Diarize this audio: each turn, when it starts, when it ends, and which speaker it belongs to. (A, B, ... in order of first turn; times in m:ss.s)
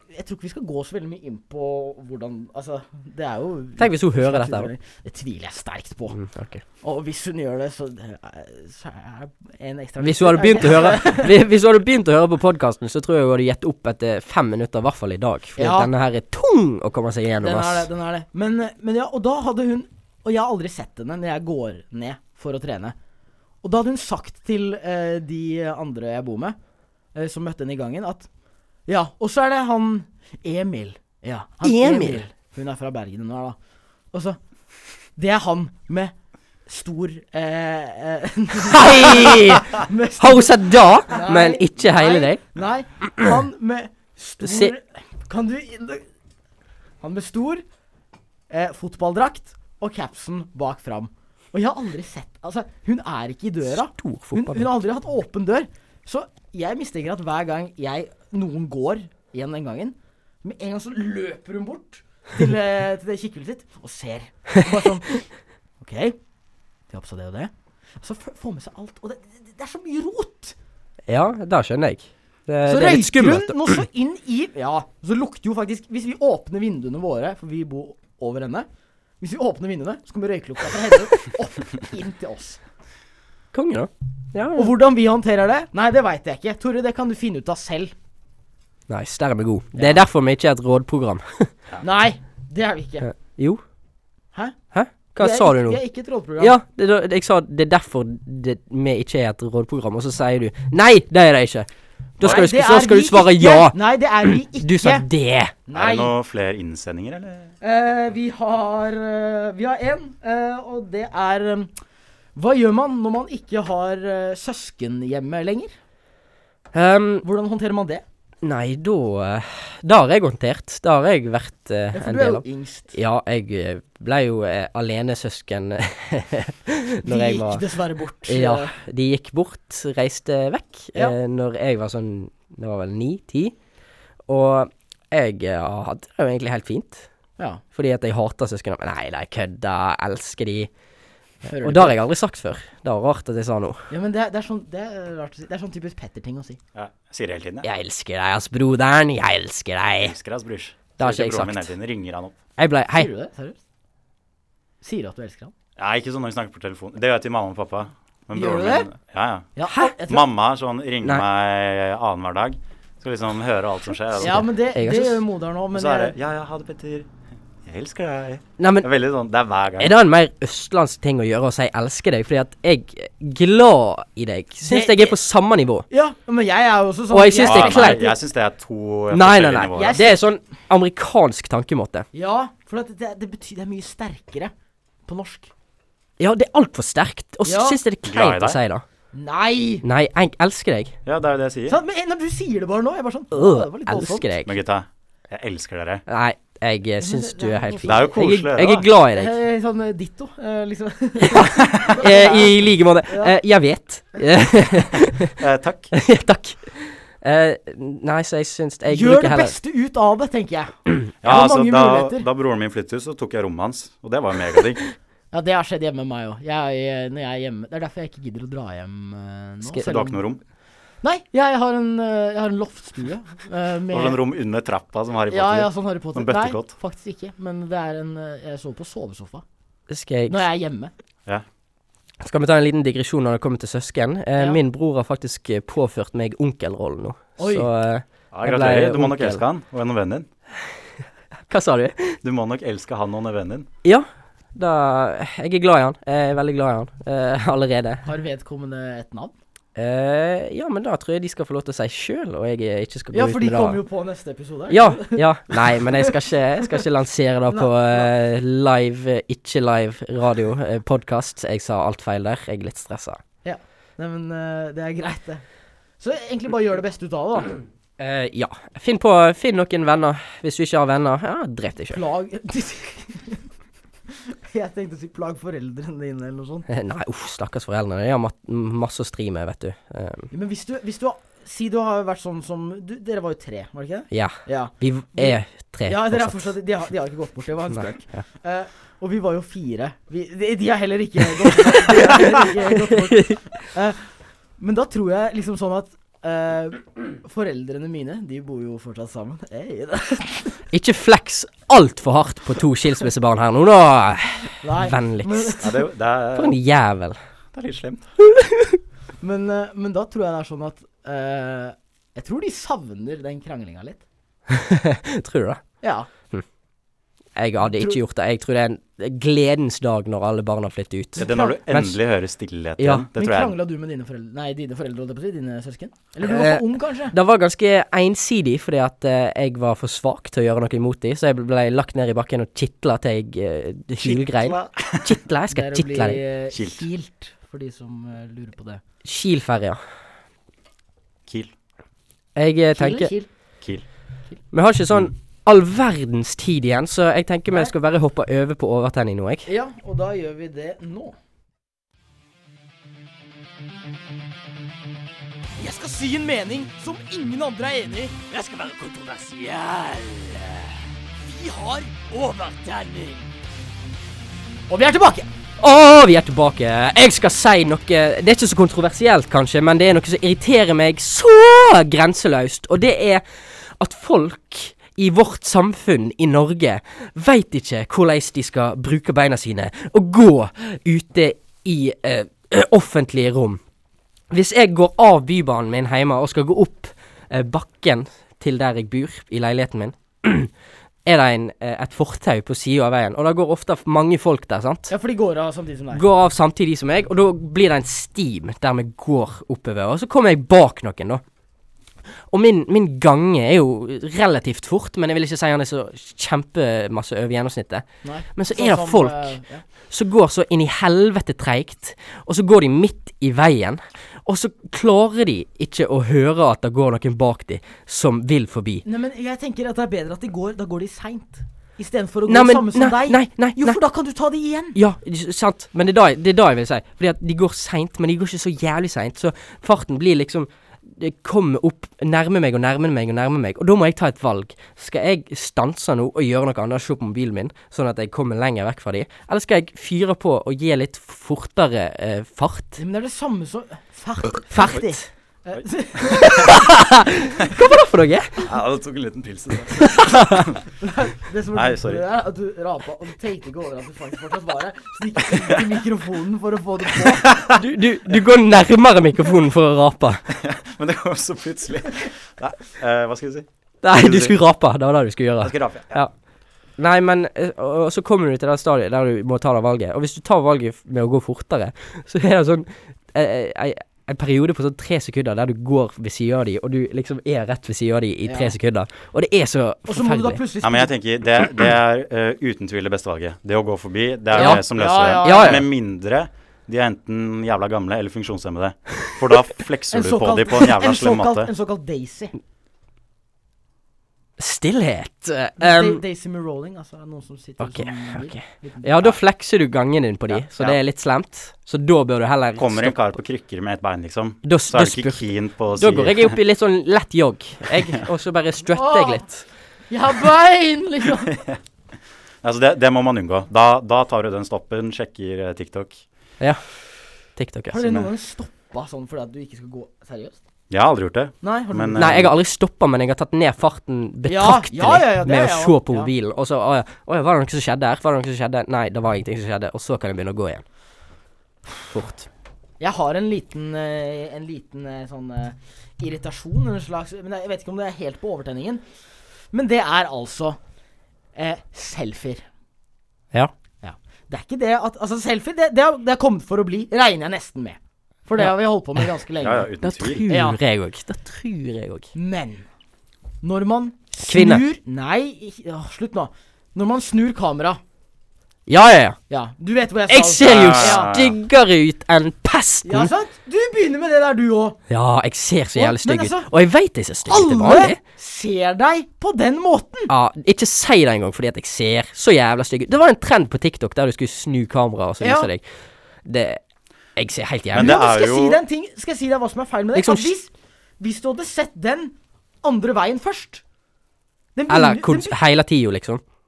0:00.1-0:06.2 A
0:03.8-0:04.7 B
0:06.1-0:06.6 B
0:06.8-0:11.4 A
0:10.0-0:17.9 B
0:15.6-0:15.9 A
0:17.4-0:23.0 A
0:23.6-0:26.6 A
0:27.2-0:28.3 A
0:28.9-0:33.6 A
0:31.6-0:32.2 B
0:34.1-0:34.4 A
0:35.2-0:36.1 A
0:36.7-0:46.0 A
0:38.7-0:42.4 B
0:44.4-0:44.7 B
0:47.0-0:47.6 A
0:48.5-1:05.3 A
0:53.7-0:54.7 B
1:05.8-1:06.2 A
1:06.9-1:10.6 A
1:11.1-1:13.8 B
1:12.7-1:18.7 A
1:19.2-1:22.6 A
1:23.5-1:24.7 B
1:24.6-1:27.9 A
1:28.9-1:31.5 B
1:29.8-1:30.0 A
1:31.8-1:33.1 A
1:33.0-1:33.6 B
1:34.7-1:35.8 B
1:35.2-1:36.6 A
1:36.4-1:41.7 B
1:42.2-1:45.5 B
1:42.2-1:45.1 A
1:45.7-1:46.1 A
1:45.7-1:47.5 C
1:47.6-1:51.7 A
1:52.4-1:55.7 A
1:56.7-1:57.2 B
1:57.2-1:58.0 A
1:58.4-2:07.6 B
2:01.9-2:03.0 A
2:07.1-2:08.7 A
2:08.3-2:13.6 B
2:14.3-2:17.1 B
2:17.7-2:20.7 B
2:21.4-2:22.0 A
2:21.6-2:23.9 B
2:23.9-2:26.6 A
2:26.7-2:27.7 C
2:27.6-2:30.2 B
2:30.0-2:32.4 C
2:31.0-2:31.7 B
2:32.6-2:33.1 B
2:32.9-2:33.6 A
2:34.8-2:35.5 A
2:35.8-2:39.5 C
2:38.3-2:38.9 A
2:39.6-2:40.2 A
2:39.7-2:39.9 B
2:40.1-2:44.4 C
2:44.2-2:46.1 A
2:44.2-2:45.2 B
2:45.7-2:47.1 C
2:47.6-2:49.9 C
2:48.6-2:48.9 B
2:49.8-2:55.9 B
2:54.6-2:55.2 A
2:55.9-2:58.2 A
2:57.1-2:58.0 B
2:57.4-3:00.0 C
2:59.1-3:02.1 B
2:59.7-3:00.2 A
3:02.1-3:04.5 A
3:05.1-3:05.5 A
3:06.2-3:08.8 B
3:07.5-3:07.8 A
3:08.0-3:08.6 C
3:09.1-3:09.8 A
3:09.8-3:10.9 B
3:11.0-3:11.8 C
3:11.7-3:14.3 A
3:13.3-3:14.5 B
3:14.4-3:16.0 C
3:16.1-3:19.4 B
3:17.0-3:18.1 A
3:17.9-3:18.9 C
3:19.2-3:23.4 A
3:21.2-3:25.3 B
3:25.4-3:25.9 C
3:25.9-3:29.5 B
3:28.9-3:32.2 A
3:31.2-3:34.8 C
3:35.3-3:40.2 A
3:39.8-3:40.4 C
3:41.0-3:44.2 A
3:43.9-3:46.7 C
3:45.3-3:49.4 A
3:49.9-3:50.4 B
3:50.3-3:50.9 A
3:52.2-3:59.4 B
3:57.4-3:57.7 A
3:58.3-4:00.3 C
4:01.5-4:02.2 B
4:02.2-4:03.7 C
4:03.8-4:08.0 B
4:08.1-4:09.3 A
4:09.8-4:13.8 B
4:13.1-4:16.1 A
4:14.7-4:23.2 B
4:17.5-4:18.1 A
4:23.4-4:25.4 A
4:26.0-4:27.6 A
4:28.0-4:32.0 B
4:31.9-4:33.4 A
4:34.5-4:36.7 A
4:36.7-4:40.3 B
4:40.3-4:54.0 A
4:44.1-4:46.6 B
4:47.7-4:48.2 B
4:51.8-4:52.5 B
4:53.1-4:53.4 B
4:54.6-5:00.5 A
5:00.7-5:05.7 B
5:04.6-5:05.8 A
5:05.6-5:06.6 C
5:06.4-5:07.2 B
5:07.5-5:08.1 C
5:08.2-5:08.8 B
5:09.2-5:14.0 A
5:14.5-5:15.6 B
5:15.8-5:16.1 A
5:17.4-5:22.0 B
5:17.6-5:18.0 A
5:21.2-5:21.6 A
5:21.2-5:23.6 C
5:22.8-5:23.0 B
5:23.2-5:27.2 A
5:26.2-5:36.2 B
5:34.0-5:35.2 C
5:35.5-5:38.8 A
5:36.5-5:36.9 C
5:39.0-5:39.8 B
5:41.3-5:41.5 C
5:42.4-5:43.1 B
5:42.7-5:43.3 A
5:44.5-5:49.5 B
5:49.5-5:51.2 A
5:55.6-6:00.7 A
6:01.2-6:03.2 A
6:04.7-6:05.3 A
6:05.6-6:13.2 B
6:13.8-6:23.6 B
6:24.3-6:30.5 B
6:31.1-6:34.9 B
6:34.9-6:36.0 A
6:35.9-6:41.2 B
6:42.3-6:49.4 B
6:48.0-6:49.6 A
6:49.9-6:58.8 B
6:58.8-7:04.8 A
7:02.3-7:03.8 B
7:04.8-7:22.8 B
7:22.8-7:26.6 A
7:24.5-7:25.1 B
7:26.1-7:28.5 B
7:28.5-7:30.6 C
7:29.8-7:30.5 B
7:30.8-7:37.5 A
7:31.5-7:32.0 C
7:37.5-7:40.2 B
7:40.3-7:44.4 C
7:43.8-7:46.1 B
7:45.4-7:46.0 C
7:46.8-8:00.4 B
7:58.3-7:58.5 A
7:59.9-8:00.9 A
8:00.6-8:11.5 C
8:04.4-8:04.6 B
8:04.4-8:05.6 A
8:05.2-8:05.7 B
8:09.9-8:12.3 A
8:14.4-8:16.0 B
8:15.6-8:19.2 A
8:17.6-8:23.1 B
8:22.6-8:26.3 C
8:24.4-8:29.4 B
8:28.7-8:29.3 A
8:29.9-8:31.4 A
8:32.4-8:36.0 C
8:37.4-8:37.8 B
8:37.7-8:40.4 A
8:40.7-8:42.3 C
8:41.4-8:42.1 A
8:42.0-8:50.6 B
8:44.3-8:46.1 A
8:51.8-8:52.3 B
8:52.8-8:58.8 A
8:59.5-9:00.6 A
9:01.4-9:02.4 A
9:03.8-9:09.7 A
9:09.4-9:10.2 C
9:09.8-9:12.1 B
9:10.3-9:10.6 A
9:12.1-9:12.6 A
9:13.4-9:17.8 A
9:14.3-9:14.6 B
9:18.7-9:19.2 B
9:19.3-9:21.1 A
9:20.1-9:23.1 B
9:20.4-9:21.4 C
9:22.8-9:24.8 A
9:24.9-9:28.0 B
9:25.8-9:26.5 A
9:27.3-9:30.1 A
9:30.1-9:35.6 B
9:35.2-9:35.5 A
9:36.2-9:36.6 B
9:37.2-9:38.0 B
9:37.7-9:38.6 C
9:37.8-9:43.6 A
9:40.0-9:40.3 B
9:44.6-9:45.4 A
9:44.7-9:46.2 B